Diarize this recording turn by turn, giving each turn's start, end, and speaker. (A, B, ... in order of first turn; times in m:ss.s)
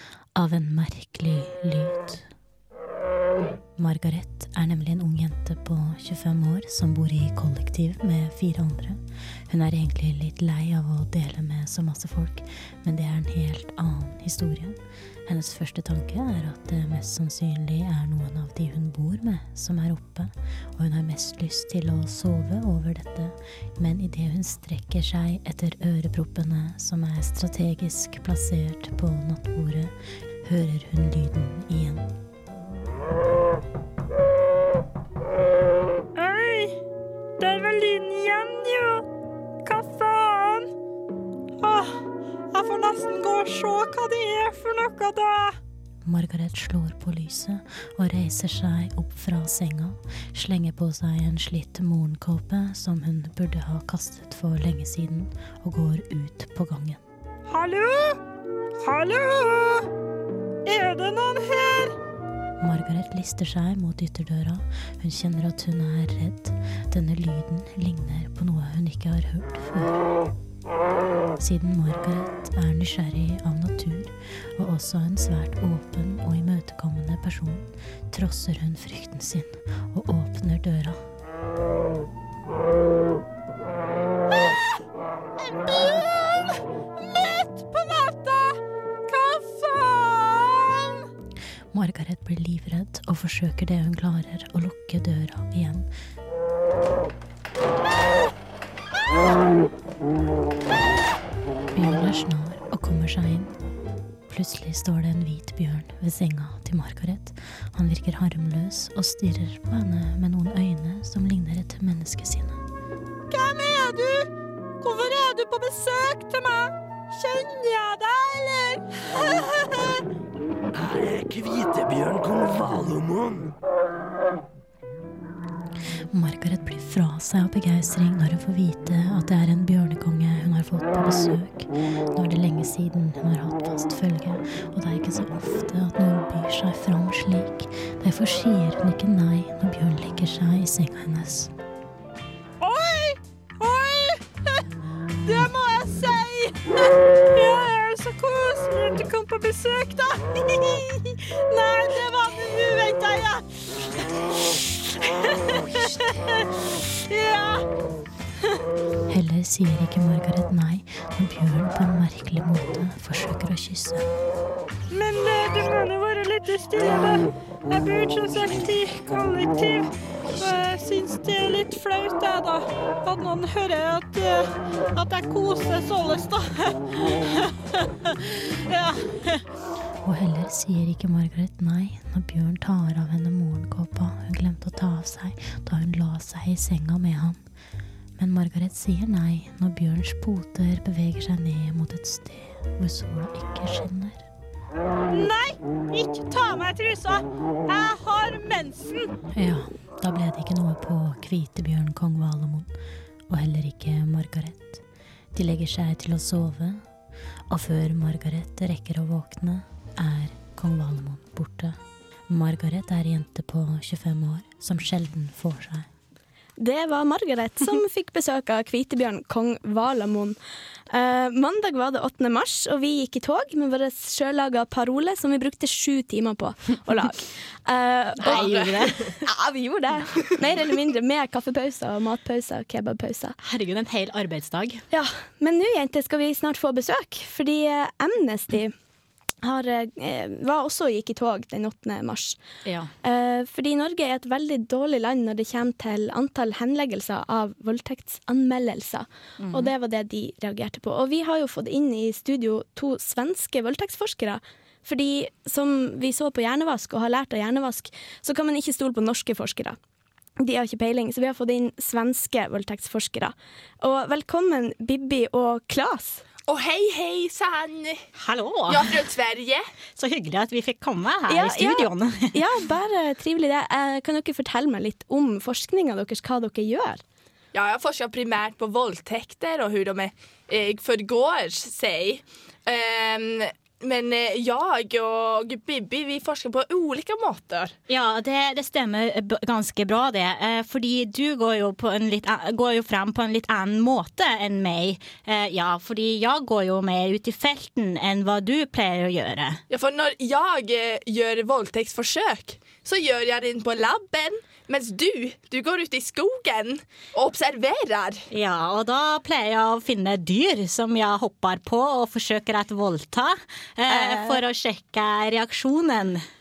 0:00.3-0:02.3 A
0:03.8-0:32.1 A
0:36.2-0:36.7 B
0:37.4-0:39.0 B
0:39.6-0:40.7 B
0:41.6-0:41.9 B
0:42.5-0:45.6 B
0:46.0-0:57.0 A
0:57.5-0:58.2 B
0:58.8-0:59.8 B
1:00.6-1:01.9 B
1:02.6-1:10.0 A
1:11.4-1:21.0 A
1:24.3-1:24.6 B
1:25.4-1:31.0 B
1:31.7-1:35.9 A
1:41.7-1:43.5 A
1:44.3-1:52.6 A
1:53.3-1:54.3 B
1:54.8-2:00.0 B
2:00.7-2:03.5 C
2:06.1-2:21.5 A
2:22.6-2:24.2 B
2:25.2-2:26.6 B
2:27.3-2:33.4 B
2:34.5-2:36.4 B
2:37.1-2:37.7 B
2:39.1-2:44.0 A
2:44.9-2:57.2 B
2:58.7-2:59.2 B
3:00.0-3:07.4 A
3:08.2-3:14.3 A
3:15.1-3:19.1 B
3:19.4-3:22.7 A
3:23.3-3:24.8 A
3:25.3-3:26.8 A
3:27.5-3:31.8 A
3:32.3-3:35.9 A
3:36.6-3:40.4 D
3:40.9-3:53.4 D
3:48.2-3:49.0 E
3:53.5-3:54.8 F
3:54.9-3:58.7 D
3:59.4-4:02.4 D
4:03.0-4:19.8 D
4:20.4-4:26.2 D
4:26.5-4:28.0 E
4:28.3-4:28.8 F
4:28.7-4:29.6 E
4:30.0-4:31.4 F
4:31.2-4:37.0 D
4:37.5-4:47.8 E
4:47.9-4:59.6 F
4:59.7-5:08.2 E
5:08.3-5:13.2 F
5:13.9-5:14.4 D
5:14.2-5:15.9 F